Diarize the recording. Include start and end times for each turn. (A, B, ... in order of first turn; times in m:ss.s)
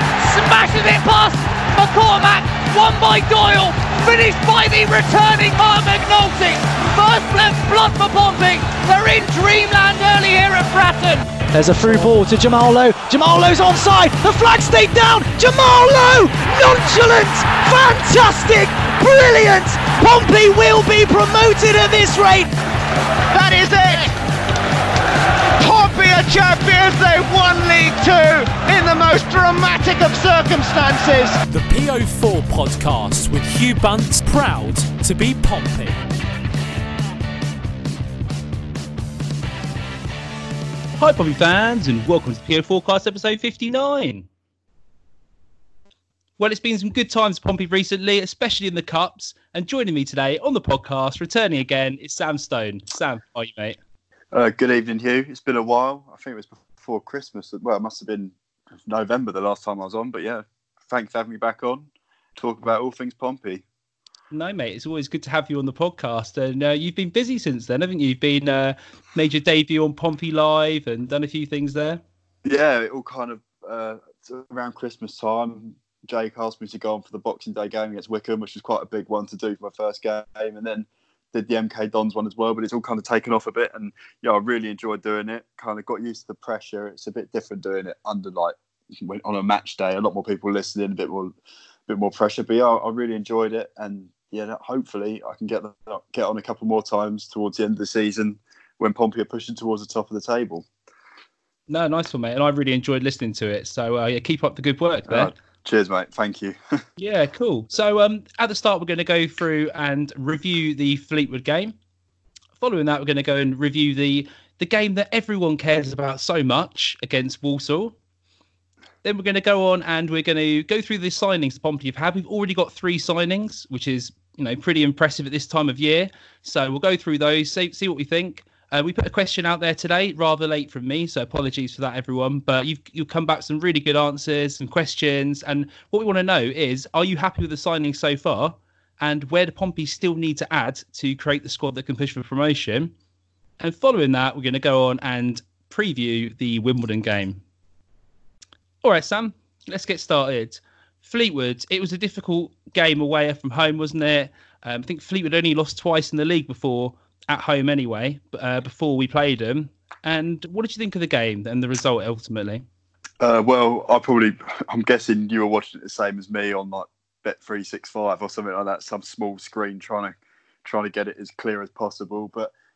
0:00.3-0:01.2 A
0:00.3-0:06.7 B
0:01.8-0:02.7 A
0:03.9-0:05.3 A
0:06.7-0:08.1 A
0:07.7-0:11.2 B
0:08.7-0:10.8 A
0:11.6-0:12.5 C
0:11.6-0:22.5 A
0:23.3-0:24.1 D
0:25.6-0:31.4 D
0:31.5-0:36.0 C
0:41.0-0:44.3 E
0:46.4-0:53.8 E
0:54.3-1:03.6 F
1:04.3-1:12.0 E
1:12.4-1:31.3 F
1:31.9-1:40.7 F
1:41.7-1:45.3 E
1:45.1-1:46.6 F
1:47.0-1:51.8 E
1:52.6-1:58.0 E
1:59.0-2:22.9 E
2:23.6-2:27.4 E
2:28.8-2:42.6 E
2:43.2-2:52.5 F